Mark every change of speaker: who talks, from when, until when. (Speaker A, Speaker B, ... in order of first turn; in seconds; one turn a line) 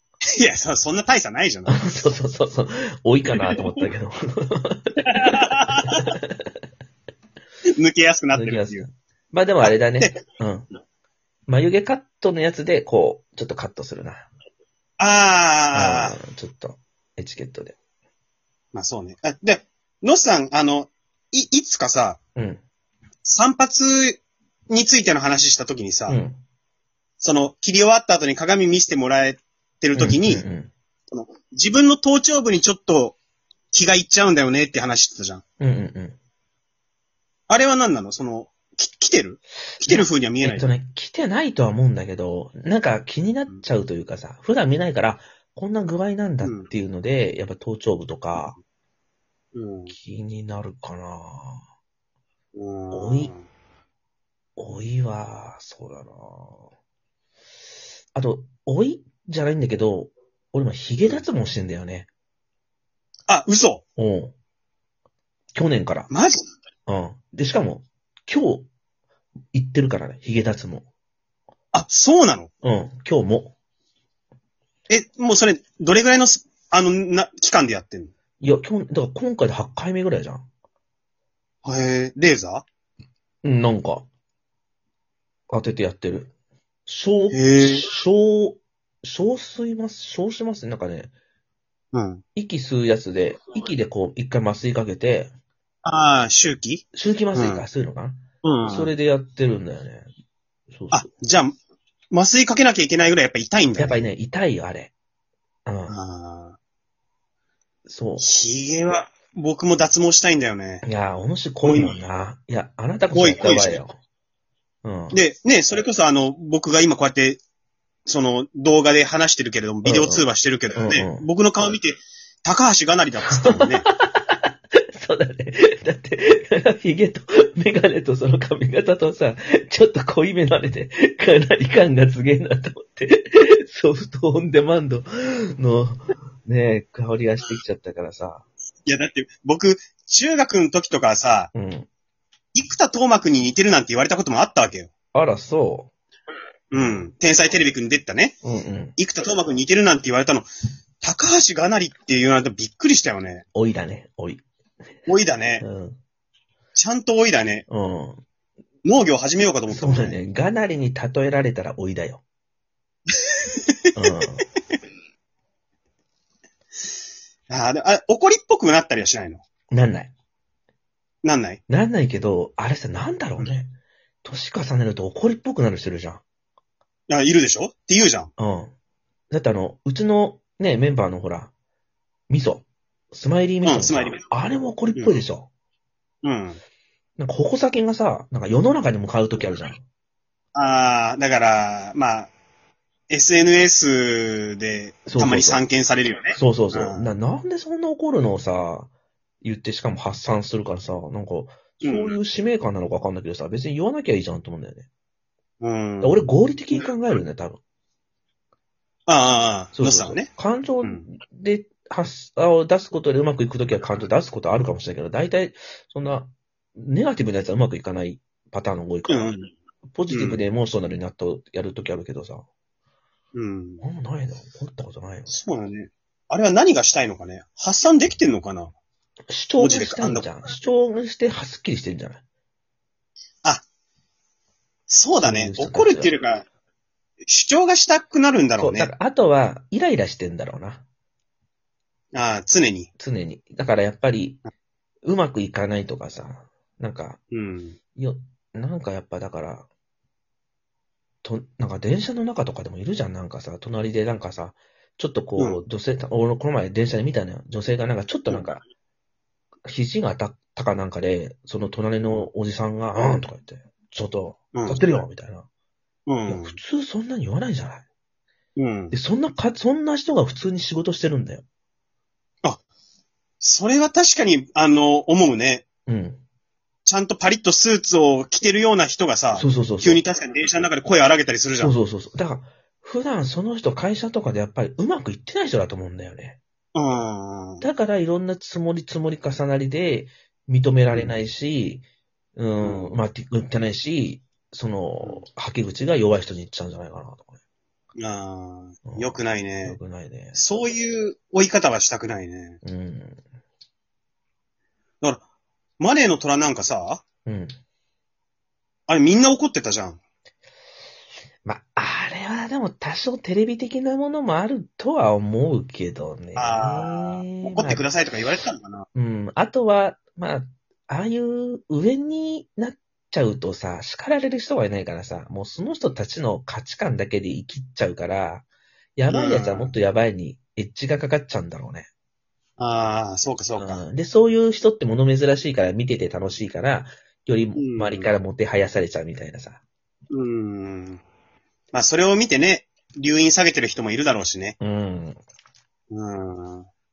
Speaker A: 0.4-2.0
Speaker B: 1.7-5.4
Speaker A: 5.0-6.1
Speaker B: 6.2-6.5
Speaker A: 7.8-8.8
Speaker B: 8.3-10.7
Speaker A: 9.6-10.2
Speaker B: 11.5-14.3
Speaker A: 15.0-16.2
Speaker B: 15.7-17.8
Speaker A: 18.7-22.2
Speaker B: 22.4-22.6
Speaker A: 23.2-26.2
Speaker B: 26.1-26.4
Speaker A: 27.2-30.4
Speaker B: 29.9-30.7
Speaker A: 31.1-33.2
Speaker A: 33.7-35.4
Speaker B: 35.6-36.2
Speaker A: 37.5-40.7
Speaker B: 39.8-48.6
Speaker A: 46.4-46.7
Speaker A: 49.5-49.9
Speaker B: 49.9-51.6
Speaker A: 52.5-53.5
Speaker B: 52.9-53.3
Speaker B: 54.6-56.6
Speaker B: 58.1-62.1
Speaker A: 63.3-63.8
Speaker B: 64.0-64.3
Speaker B: 65.5-66.1
Speaker A: 66.1-66.4
Speaker B: 66.9-68.7
Speaker B: 69.5-70.9
Speaker A: 71.7-72.5
Speaker B: 72.6-73.5
Speaker A: 74.9-78.1
Speaker B: 78.4-80.5
Speaker A: 81.6-82.6
Speaker B: 83.4-84.0
Speaker B: 85.5-86.3
Speaker B: 86.8-91.1
Speaker A: 87.3-87.8
Speaker A: 91.9-92.2
Speaker B: 92.3-95.3
Speaker A: 95.8-97.6
Speaker B: 96.9-100.1
Speaker A: 98.4-98.9
Speaker B: 100.7-101.0
Speaker A: 100.9-101.5
Speaker A: 102.1-104.1
Speaker B: 103.8-104.9
Speaker B: 105.7-106.0
Speaker A: 105.9-106.6
Speaker B: 107.8-108.3
Speaker A: 108.2-110.8
Speaker B: 110.8-114.0
Speaker A: 111.6-112.0
Speaker A: 113.1-113.8
Speaker B: 114.8-115.2
Speaker A: 115.1-117.4
Speaker A: 118.0-123.9
Speaker B: 119.8-121.2
Speaker B: 123.3-138.4
Speaker A: 138.8-141.5
Speaker B: 141.5-141.9
Speaker A: 142.5-144.9
Speaker B: 145.1-145.9
Speaker A: 146.7-148.4
Speaker B: 146.8-147.1
Speaker B: 148.4-148.9
Speaker A: 148.9-150.5
Speaker A: 151.0-153.4
Speaker B: 153.5-154.4
Speaker A: 155.1-155.6
Speaker B: 155.6-156.0
Speaker A: 156.7-157.7
Speaker B: 157.7-158.2
Speaker A: 158.8-160.2
Speaker B: 159.7-162.2
Speaker A: 163.4-163.9
Speaker B: 163.9-164.4
Speaker A: 167.5-169.4
Speaker B: 169.7-170.1
Speaker A: 171.2-171.6
Speaker B: 171.7-173.7
Speaker B: 174.2-176.2
Speaker A: 177.1-178.3
Speaker B: 178.4-178.7
Speaker B: 179.3-181.5
Speaker B: 182.3-185.5
Speaker A: 183.6-184.2
Speaker A: 184.9-185.2
Speaker A: 186.2-186.6
Speaker B: 187.2-189.8
Speaker A: 190.5-192.3
Speaker A: 193.1-197.1
Speaker B: 195.1-195.6
Speaker B: 196.3-198.9
Speaker B: 199.4-204.9
Speaker A: 201.8-202.2
Speaker A: 205.6-206.3
Speaker B: 206.0-207.6
Speaker A: 209.1-210.3
Speaker B: 209.7-219.3
Speaker A: 219.1-219.5
Speaker B: 219.9-222.4
Speaker A: 220.1-220.4
Speaker A: 223.3-223.8
Speaker B: 223.8-225.4
Speaker A: 225.3-228.7
Speaker B: 229.3-232.2
Speaker A: 229.6-230.3
Speaker A: 234.9-236.4
Speaker B: 235.2-236.1
Speaker A: 237.3-238.9
Speaker B: 238.6-240.8
Speaker A: 242.1-242.9
Speaker B: 243.0-244.4
Speaker B: 245.0-247.2
Speaker A: 247.3-247.8
Speaker B: 248.0-249.7
Speaker B: 251.2-258.6
Speaker B: 259.6-265.4
Speaker A: 264.5-264.9
Speaker A: 266.1-266.6
Speaker B: 266.3-267.8
Speaker A: 268.6-268.9
Speaker B: 268.9-271.4
Speaker A: 273.4-275.6
Speaker B: 275.9-276.2
Speaker A: 276.9-281.7
Speaker B: 279.3-280.0
Speaker B: 281.6-286.4
Speaker A: 286.7-287.6
Speaker B: 287.6-291.8
Speaker A: 290.9-291.2
Speaker B: 292.4-297.3
Speaker A: 292.6-292.9
Speaker A: 298.0-299.8
Speaker B: 298.9-300.4
Speaker A: 300.4-302.6
Speaker B: 302.6-303.2
Speaker A: 305.8-307.0
Speaker B: 307.2-307.5
Speaker A: 308.9-310.0
Speaker B: 311.4-317.8
Speaker A: 316.4-318.9
Speaker B: 318.9-331.9
Speaker A: 329.1-329.7
Speaker A: 332.6-333.8
Speaker B: 333.6-339.6
Speaker A: 337.6-338.1
Speaker A: 340.1-341.0
Speaker A: 341.7-344.6
Speaker B: 344.6-345.2
Speaker A: 345.9-346.7